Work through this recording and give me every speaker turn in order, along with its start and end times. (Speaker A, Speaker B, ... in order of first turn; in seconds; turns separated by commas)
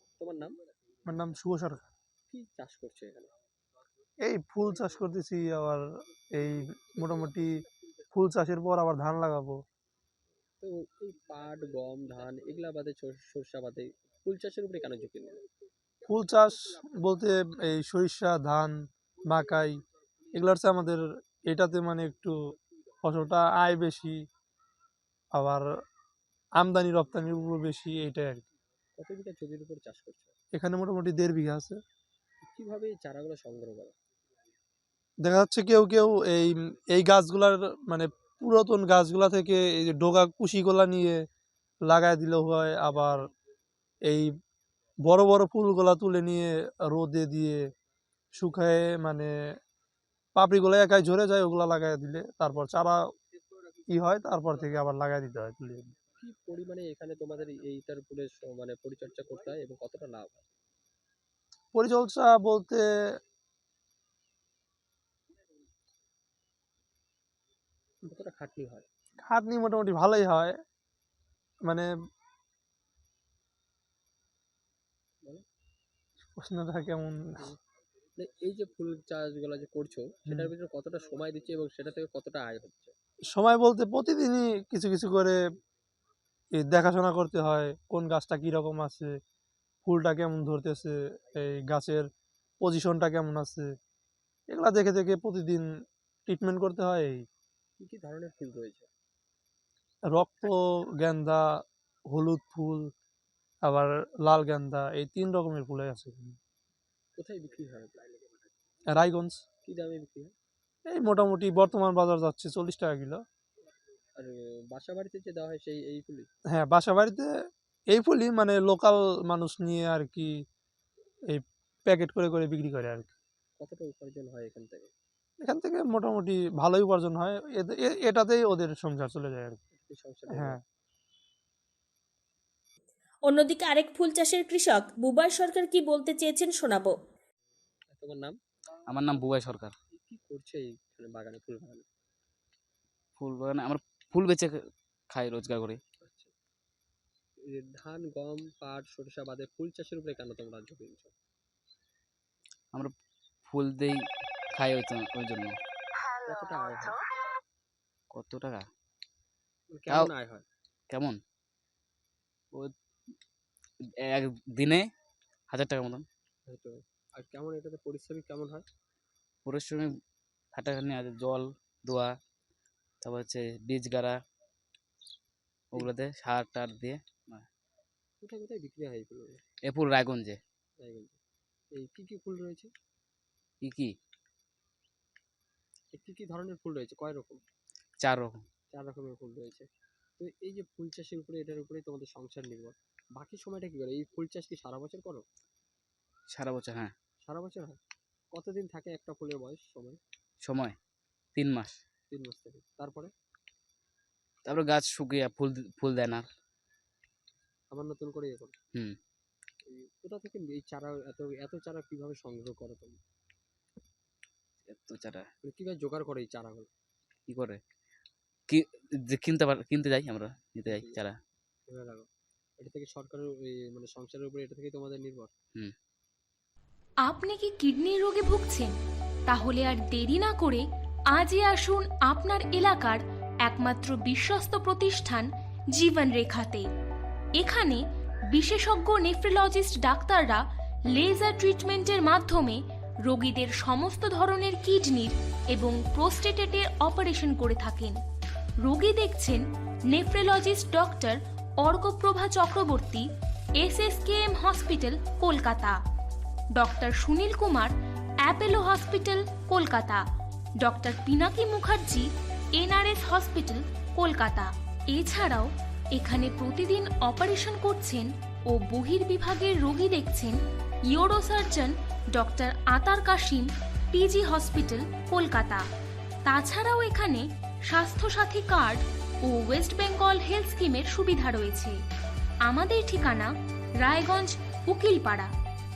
Speaker A: 0.2-0.6, Speaker B: 1.1-1.9, Speaker A: 2.3-3.3, Speaker B: 4.2-5.8, Speaker B: 6.4-7.5, Speaker B: 8.1-9.6, Speaker A: 10.6-15.4, Speaker B: 16.1-18.8, Speaker B: 19.3-19.8, Speaker B: 20.4-22.3, Speaker B: 23.0-24.2, Speaker B: 25.4-25.7, Speaker B: 26.6-28.4, Speaker A: 29.0-30.4, Speaker B: 30.5-31.8, Speaker A: 32.5-33.9, Speaker B: 35.2-41.2, Speaker B: 41.9-43.2, Speaker B: 45.1-47.6, Speaker B: 48.4-49.3, Speaker B: 50.4-53.0, Speaker B: 53.9-55.9, Speaker A: 56.2-60.5, Speaker B: 61.7-62.8, Speaker A: 68.0-68.9, Speaker B: 69.2-70.5, Speaker B: 76.4-77.2, Speaker A: 78.2-82.9, Speaker B: 83.3-85.4, Speaker B: 86.6-89.1, Speaker B: 89.9-92.1, Speaker B: 92.6-93.7, Speaker B: 94.5-95.7, Speaker B: 96.3-97.2, Speaker A: 97.8-98.9, Speaker B: 100.1-101.4, Speaker B: 102.1-102.9, Speaker B: 103.7-106.4, Speaker A: 107.2-108.1, Speaker B: 108.9-109.4, Speaker A: 109.7-110.3, Speaker B: 110.9-113.2, Speaker A: 114.2-116.3, Speaker B: 116.5-117.3, Speaker B: 117.9-120.3, Speaker B: 121.3-123.1, Speaker A: 123.6-124.9, Speaker B: 125.4-129.6, Speaker A: 129.7-130.6, Speaker B: 130.3-130.6, Speaker C: 133.3-136.9, Speaker A: 137.9-138.3, Speaker D: 138.9-139.8, Speaker A: 140.1-141.8, Speaker D: 143.2-144.6, Speaker D: 145.1-145.8, Speaker A: 146.0-146.3, Speaker A: 147.5-151.1, Speaker D: 153.5-155.6, Speaker A: 156.2-157.0, Speaker D: 158.1-158.7, Speaker A: 159.7-160.4, Speaker D: 160.9-161.2, Speaker D: 164.1-164.9, Speaker D: 165.5-166.1, Speaker A: 166.5-168.7, Speaker D: 169.4-169.9, Speaker D: 170.6-172.1, Speaker D: 173.0-174.2, Speaker D: 175.7-177.4, Speaker A: 178.2-179.4, Speaker D: 179.7-180.4, Speaker A: 180.8-181.2, Speaker A: 181.8-182.7, Speaker D: 183.6-183.9, Speaker A: 185.9-187.4, Speaker D: 188.0-188.4, Speaker A: 188.7-189.7, Speaker A: 190.2-195.2, Speaker D: 196.3-196.9, Speaker A: 197.3-197.8, Speaker A: 198.3-200.0, Speaker D: 200.4-200.8, Speaker D: 201.4-201.7, Speaker A: 202.1-203.1, Speaker D: 204.5-206.3, Speaker A: 207.7-208.6, Speaker A: 209.7-212.9, Speaker D: 214.7-215.3, Speaker A: 215.4-216.7, Speaker D: 217.3-217.6, Speaker D: 218.5-221.2, Speaker A: 220.7-221.0, Speaker A: 221.7-222.1, Speaker A: 222.6-225.3, Speaker E: 227.1-228.7, Speaker E: 229.3-236.7, Speaker E: 237.4-248.0, Speaker E: 248.6-255.8, Speaker E: 256.6-257.7, Speaker E: 258.2-260.0, Speaker E: 260.6-270.4, Speaker E: 270.9-275.6, Speaker E: 276.3-281.8, Speaker E: 282.5-285.3